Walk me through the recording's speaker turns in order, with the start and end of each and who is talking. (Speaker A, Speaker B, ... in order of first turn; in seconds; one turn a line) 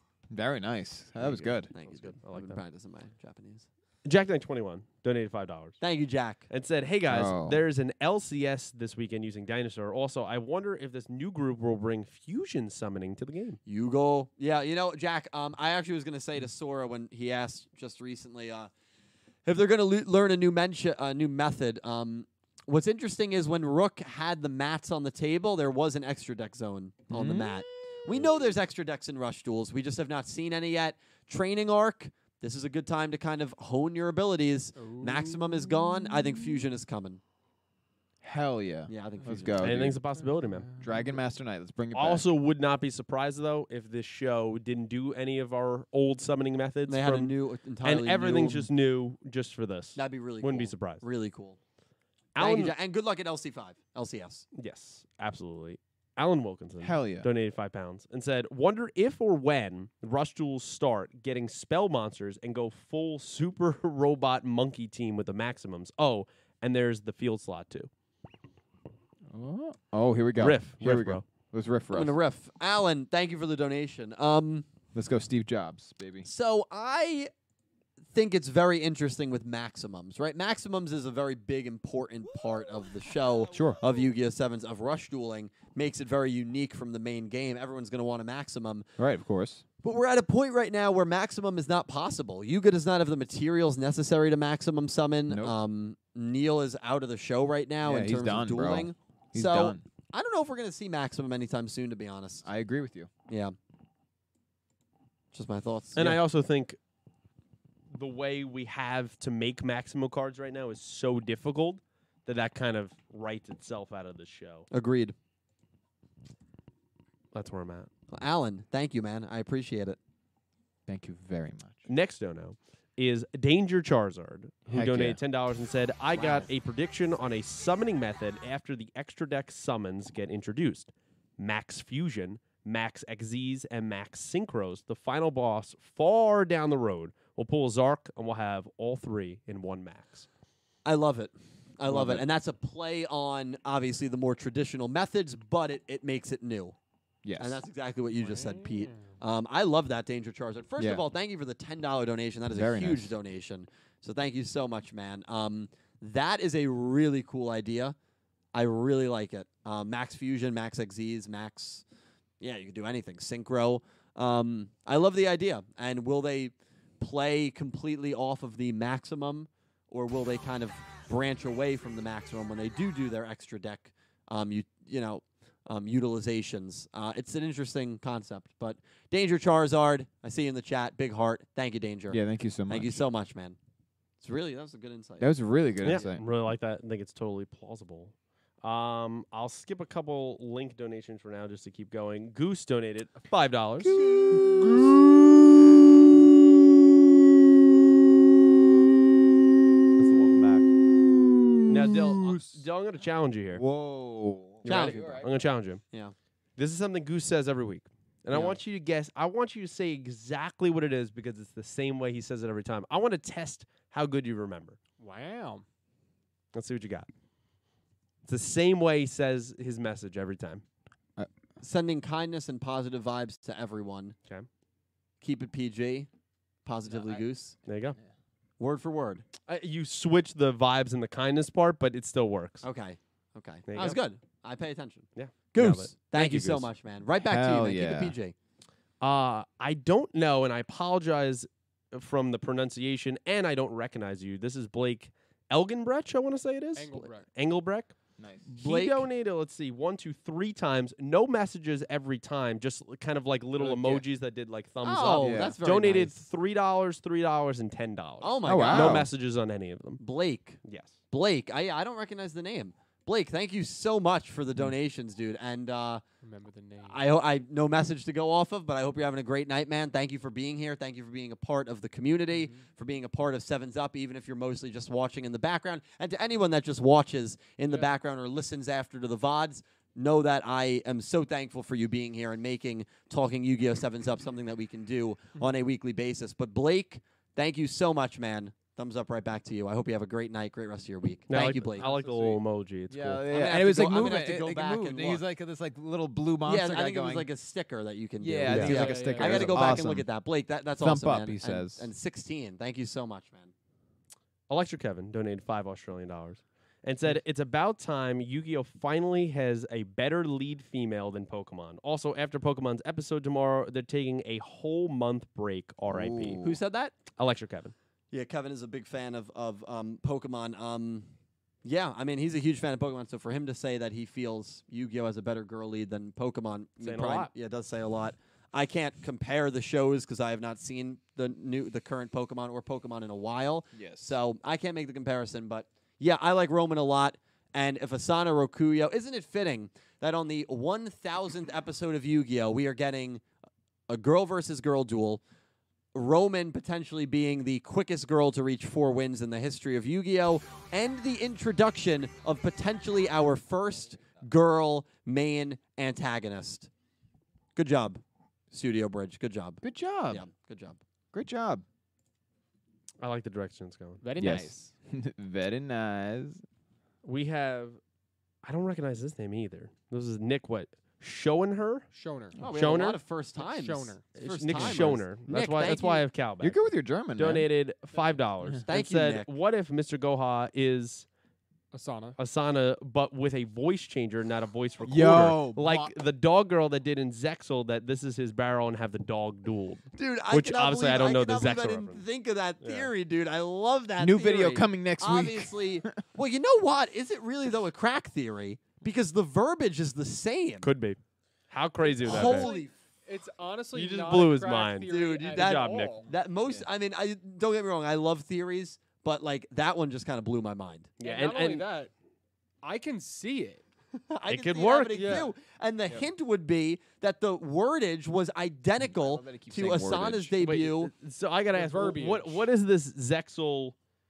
Speaker A: 0.3-1.7
Speaker B: 1.2-2.6
Speaker C: 1.3-3.7
Speaker B: 4.0-5.8
Speaker C: 5.8-6.4
Speaker B: 6.5-13.6
Speaker A: 7.1-7.6
Speaker C: 13.7-18.7
Speaker C: 19.4-37.2
Speaker A: 27.1-27.6
Speaker D: 34.8-35.5
Speaker A: 38.2-40.0
Speaker C: 38.9-39.9
Speaker B: 39.6-40.7
Speaker D: 40.4-41.1
Speaker A: 40.8-42.2
Speaker B: 41.9-51.0
Speaker C: 46.9-48.7
Speaker C: 50.0-51.6
Speaker B: 52.4-52.8
Speaker C: 52.4-54.5
Speaker B: 54.5-67.9
Speaker A: 56.8-57.3
Speaker A: 69.3-72.2
Speaker B: 70.4-71.2
Speaker C: 71.9-74.7
Speaker A: 74.9-76.3
Speaker C: 76.2-77.3
Speaker C: 78.1-88.9
Speaker A: 83.5-83.8
Speaker A: 89.0-89.6
Speaker C: 89.8-102.5
Speaker A: 95.3-95.5
Speaker A: 97.8-99.8
Speaker A: 102.4-103.1
Speaker C: 103.3-103.5
Speaker C: 105.3-106.2
Speaker B: 106.0-106.8
Speaker B: 107.9-114.7
Speaker C: 114.7-115.2
Speaker B: 117.3-117.9
Speaker C: 118.1-120.0
Speaker A: 120.9-121.9
Speaker B: 121.9-140.3
Speaker A: 124.7-125.2
Speaker C: 126.1-126.5
Speaker C: 140.8-146.8
Speaker A: 141.9-142.3
Speaker A: 147.2-147.6
Speaker C: 147.4-158.0
Speaker D: 148.2-149.1
Speaker A: 150.8-151.0
Speaker A: 152.5-153.2
Speaker C: 158.5-161.8
Speaker C: 162.4-183.6
Speaker A: 182.1-183.0
Speaker C: 184.2-185.3
Speaker A: 185.2-186.2
Speaker B: 185.8-194.0
Speaker A: 193.8-195.1
Speaker B: 200.0-200.7
Speaker A: 201.1-202.4
Speaker B: 201.7-203.6
Speaker A: 203.6-205.3
Speaker B: 204.6-205.8
Speaker C: 204.7-205.3
Speaker B: 206.6-214.8
Speaker C: 208.3-208.6
Speaker D: 215.0-215.7
Speaker B: 216.5-217.1
Speaker B: 218.2-220.6
Speaker C: 221.6-224.2
Speaker C: 225.2-226.1
Speaker C: 226.7-227.6
Speaker A: 226.9-227.2
Speaker B: 227.7-228.0
Speaker C: 228.6-229.3
Speaker B: 229.5-232.6
Speaker C: 232.6-238.3
Speaker B: 233.7-234.0
Speaker B: 235.2-236.7
Speaker A: 237.2-238.2
Speaker B: 239.0-247.9
Speaker D: 246.8-247.3
Speaker A: 248.2-248.4
Speaker B: 248.5-260.0
Speaker C: 248.6-249.1
Speaker C: 253.6-254.1
Speaker C: 254.8-256.2
Speaker A: 255.2-255.6
Speaker C: 258.2-259.1
Speaker A: 258.4-259.1
Speaker C: 260.0-266.0
Speaker B: 260.6-260.9
Speaker D: 266.2-267.0
Speaker C: 266.9-291.9
Speaker D: 272.4-272.6
Speaker B: 291.3-293.3
Speaker D: 291.4-292.4
Speaker A: 292.9-297.3
Speaker C: 293.3-295.2
Speaker C: 296.4-303.5
Speaker A: 298.2-300.1
Speaker B: 298.4-298.8
Speaker D: 298.6-299.8
Speaker A: 300.8-301.9
Speaker B: 304.5-316.4
Speaker A: 315.9-316.6
Speaker C: 316.4-317.0
Speaker B: 317.1-317.7
Speaker C: 318.1-321.1
Speaker C: 321.6-343.2
Speaker B: 326.8-327.3
Speaker A: 333.7-334.2
Speaker C: 343.9-345.2
Speaker C: 345.9-356.7
Speaker C: 357.6-360.8
Speaker A: 359.6-360.3
Speaker A: 361.1-361.6
Speaker B: 363.0-364.0
Speaker D: 364.0-364.7
Speaker A: 364.2-366.4
Speaker B: 367.0-367.8
Speaker B: 368.4-371.9
Speaker D: 371.9-372.4
Speaker C: 372.4-376.1
Speaker B: 372.5-373.0
Speaker D: 373.4-374.0
Speaker B: 374.2-376.6
Speaker A: 376.4-377.5
Speaker B: 377.2-381.1
Speaker C: 378.7-379.3
Speaker D: 381.7-382.2
Speaker B: 382.2-392.1
Speaker A: 384.8-385.9
Speaker C: 390.0-400.7
Speaker B: 392.6-392.9
Speaker A: 394.0-395.9
Speaker B: 400.6-401.0
Speaker B: 401.5-402.5
Speaker D: 401.8-406.1
Speaker C: 402.0-402.7
Speaker B: 403.7-406.0
Speaker C: 404.9-410.9
Speaker B: 411.0-411.6
Speaker D: 411.0-411.9
Speaker D: 412.6-413.6
Speaker C: 414.1-420.9
Speaker B: 414.3-415.2
Speaker D: 414.9-415.3
Speaker A: 418.8-420.4
Speaker B: 420.4-423.8
Speaker D: 421.5-422.5